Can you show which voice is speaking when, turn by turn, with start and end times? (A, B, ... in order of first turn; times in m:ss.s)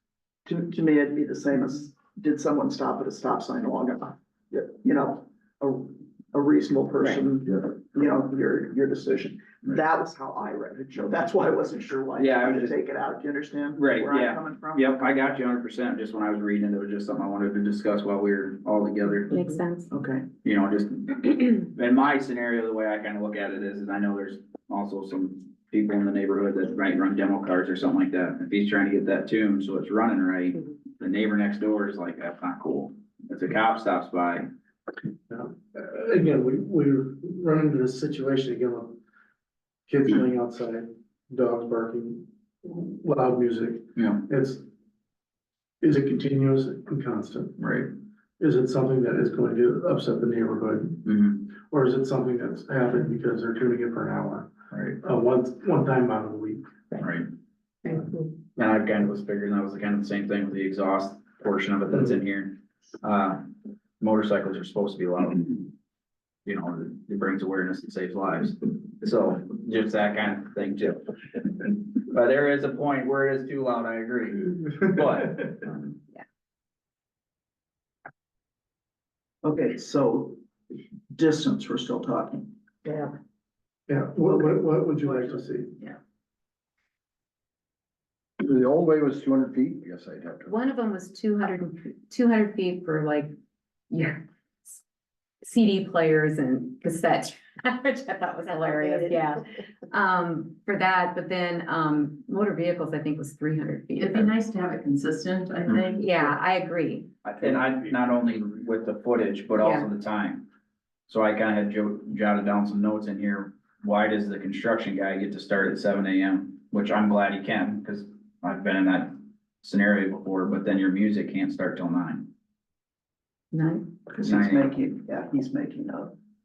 0:00.5-0:15.2 A
0:12.2-0:12.8 B
0:13.8-0:19.5 B
0:19.3-0:19.9 C
0:19.9-0:20.3 A
0:20.4-0:34.5 B
0:35.3-0:39.0 D
0:39.9-0:44.6 D
0:44.0-0:44.3 B
0:45.8-0:47.6 D
0:47.6-0:47.9 B
0:48.4-0:56.6 D
0:51.0-0:51.5 B
0:54.7-0:55.0 B
0:57.0-0:57.3 B
0:57.8-0:58.3 C
0:58.6-1:05.7 B
1:06.5-1:15.7 B
1:15.8-1:16.2 C
1:19.4-1:20.4 A
1:21.1-1:23.1 A
1:23.9-1:25.7 D
1:24.3-1:25.4 A
1:28.4-1:30.5 E
1:30.5-1:33.3 C
1:33.9-1:34.8 C
1:35.4-1:44.4 C
1:44.0-1:46.3 F
1:45.9-1:47.1 C
1:47.4-1:50.5 B
1:49.6-1:49.9 C
1:51.1-2:02.3 B
2:03.5-2:03.9 C
2:04.1-2:06.2 A
2:04.2-2:04.7 B